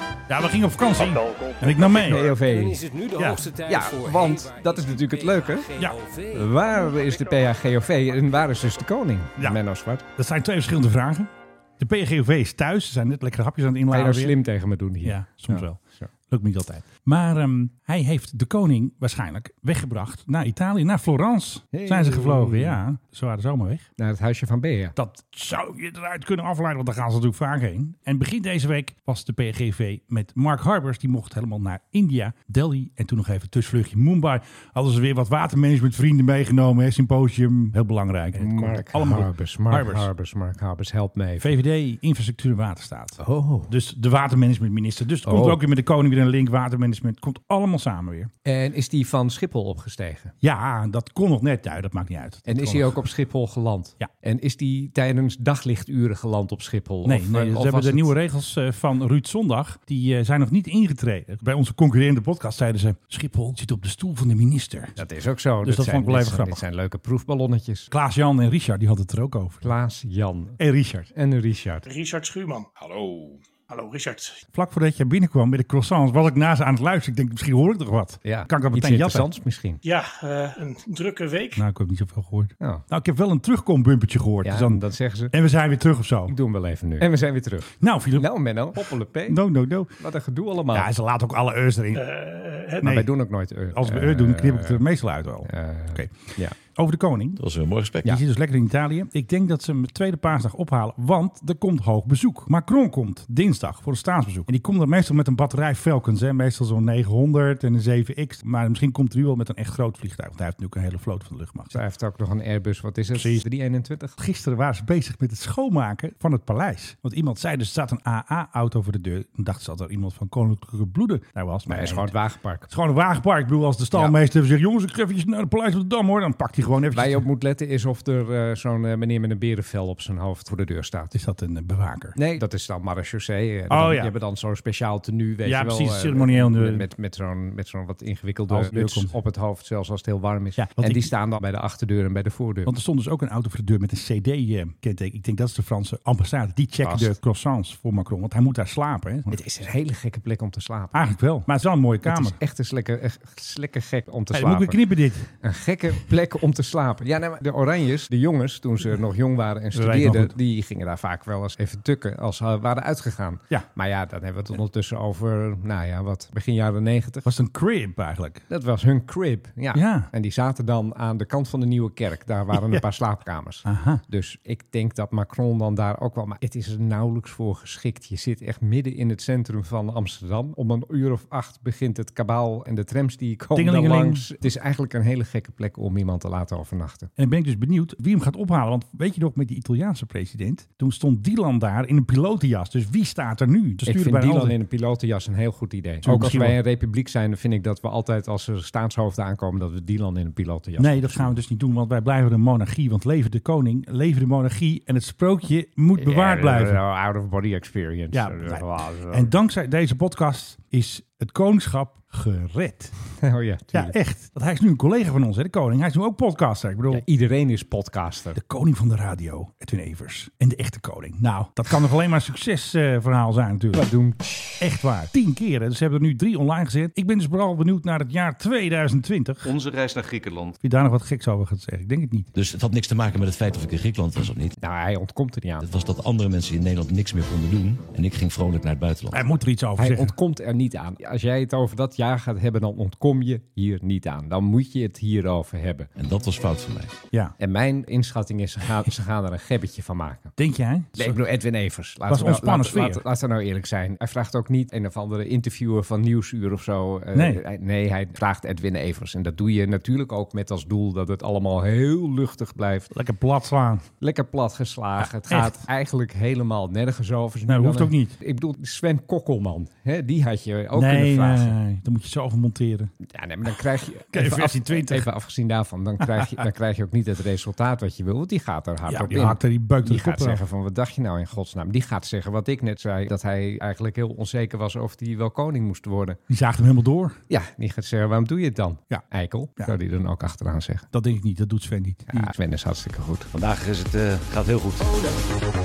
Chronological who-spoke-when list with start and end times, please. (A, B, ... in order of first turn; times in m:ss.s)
0:00.3-0:02.3 A
0:01.4-0:07.5 B
0:02.1-0:02.8 C
0:03.2-0:03.4 A
0:03.7-0:05.7 C
0:06.3-0:10.0 C
0:10.2-0:14.4 A
0:13.9-0:16.1 C
0:15.0-0:23.9 A
0:21.7-0:22.8 C
0:24.0-0:25.0 C
0:25.0-0:40.1 A
0:38.4-0:41.6 C
0:41.4-0:48.3 A
0:43.2-0:43.7 C
0:45.2-0:45.6 C
0:48.4-0:50.3 C
0:50.4-0:53.0 A
0:52.5-0:58.1 C
0:57.0-1:05.0 A
1:05.0-1:07.9 C
1:05.6-1:06.6 A
1:07.9-1:09.7 A
1:09.6-1:11.8 C
1:10.6-1:11.1 A
1:11.9-1:14.4 D
1:14.5-1:19.3 A
1:18.2-1:19.8 C
1:19.8-1:21.6 D
1:21.6-1:26.3 A
1:24.4-1:25.3 C
1:26.3-1:29.4 C
1:27.8-1:29.9 A
1:30.0-1:30.9 C
1:30.7-1:32.0 A
1:32.0-1:33.0 D
1:32.8-1:33.1 A
1:32.8-1:34.8 C
1:33.7-1:37.4 A
1:35.4-1:36.6 C
1:37.4-1:38.2 E
1:38.0-1:51.8 A
1:51.7-1:54.2 C
1:53.1-1:53.4 A
1:54.2-2:02.1 A
2:01.7-2:02.7 C
2:02.7-2:07.2 A
2:06.9-2:11.2 C
2:11.1-2:12.2 A
2:12.2-2:22.7 C
2:13.7-2:14.1 A
2:15.4-2:16.8 A
2:18.5-2:19.2 A
2:20.6-2:21.1 A
2:22.6-2:29.4 A
2:26.8-2:27.2 C
2:29.3-2:31.0 C
2:30.9-2:32.4 A
2:32.0-2:34.8 C
2:34.3-2:35.3 A
2:35.3-2:47.3 C
2:39.7-2:40.4 A
2:47.2-2:48.4 A
2:48.5-3:07.1 C
2:49.7-2:50.1 A
2:52.5-2:52.8 A
2:53.7-2:54.0 A
3:03.6-3:04.3 A
3:07.2-3:14.6 A
3:13.9-3:21.3 C
3:16.0-3:16.6 A
3:20.8-3:26.8 A
3:26.0-3:29.3 C
3:28.1-3:33.0 A
3:33.2-3:34.0 C
3:33.7-3:37.0 A
3:36.9-3:38.4 C
3:38.4-3:43.9 A
3:43.7-3:44.6 C
3:44.6-3:49.5 A
3:49.4-3:50.6 E
3:50.6-3:52.3 A
3:52.3-3:54.6 E
3:54.6-3:55.7 C
3:55.6-3:59.2 E
3:59.1-4:00.1 A
3:59.8-4:05.9 C
4:06.0-4:06.9 E
4:07.4-4:10.3 C
4:10.4-4:11.2 A
4:11.0-4:22.9 C
4:12.1-4:13.0 A
4:17.1-4:17.4 A
4:22.9-4:23.9 A
4:24.0-4:31.6 C
4:25.3-4:25.6 A
4:27.5-4:28.2 A
4:30.8-4:32.9 A
4:33.0-4:46.2 C
4:34.1-4:35.1 A
4:36.2-4:36.4 A
4:38.9-4:40.4 A
4:46.3-4:47.2 A
4:47.3-4:50.9 C
4:50.9-4:52.3 A
4:52.1-4:53.3 C
4:53.3-4:54.9 E